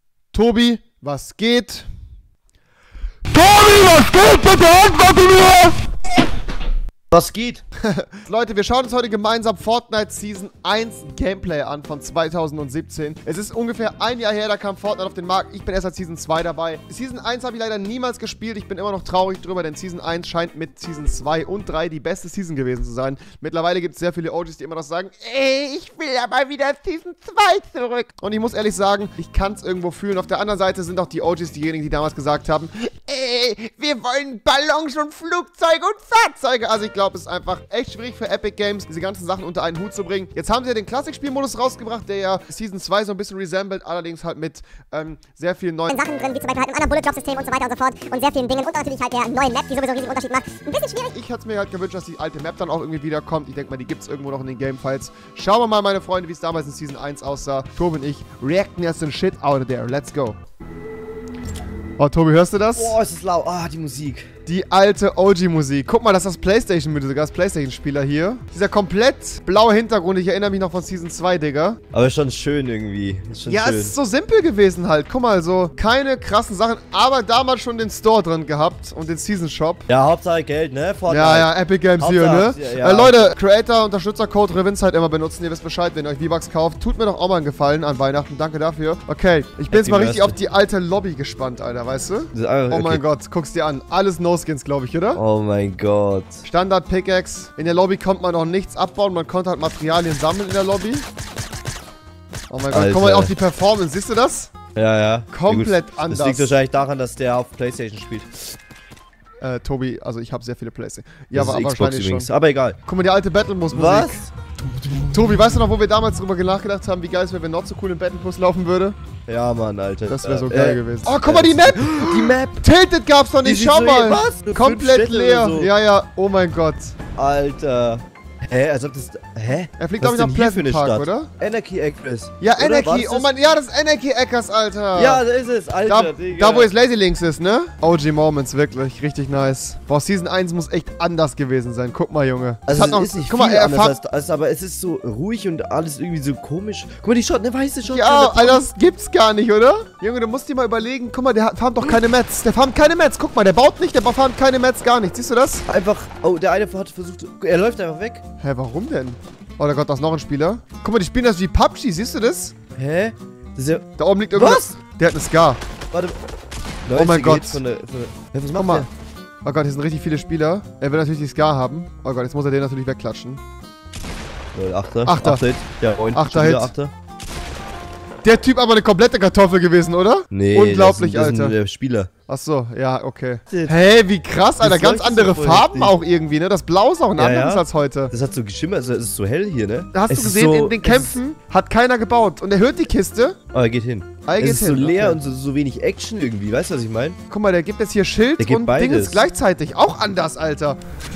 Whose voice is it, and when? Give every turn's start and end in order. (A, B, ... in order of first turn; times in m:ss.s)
0:00.3-0:01.9 A
0:03.3-0:05.8 A
0:07.1-0:07.6 B
0:07.8-0:46.0 A
0:45.9-0:51.1 C
0:51.1-1:00.4 A
1:02.0-1:03.0 A
1:02.8-1:04.3 B
1:04.5-1:11.8 A
1:11.9-1:14.0 B
1:13.5-1:19.9 A
1:19.9-1:23.3 B
1:21.1-1:35.2 A
1:29.7-1:30.4 B
1:32.3-1:33.0 B
1:35.2-1:36.4 B
1:36.4-1:41.0 A
1:42.5-1:44.5 A
1:42.7-1:43.3 B
1:44.8-1:48.6 B
1:45.3-1:46.6 A
1:49.4-1:52.3 A
1:51.3-1:52.8 B
1:52.8-1:54.2 A
1:53.7-1:54.3 B
1:55.0-1:59.0 A
1:59.3-2:02.6 B
2:00.1-2:07.0 A
2:03.4-2:05.7 B
2:07.2-2:13.3 B
2:09.8-2:11.3 A
2:12.4-2:15.2 A
2:14.9-2:16.7 B
2:15.9-2:24.0 A
2:22.7-2:28.7 B
2:27.9-2:35.7 A
2:35.7-2:38.2 B
2:38.4-2:42.5 A
2:42.8-2:44.7 B
2:44.0-2:45.6 A
2:45.9-2:46.2 B
2:46.9-2:48.9 B
2:46.9-2:47.6 A
2:48.6-2:48.9 A
2:49.4-2:53.4 A
2:54.5-2:56.9 B
2:55.0-2:55.4 A
2:56.1-2:56.7 A
2:58.2-3:01.6 A
3:00.3-3:02.1 B
3:02.3-3:08.1 A
3:03.5-3:03.7 B
3:04.6-3:06.0 B
3:07.2-3:11.2 B
3:09.9-3:13.4 A
3:13.5-3:17.2 B
3:14.2-3:15.2 A
3:17.3-3:20.8 A
3:18.4-3:19.2 B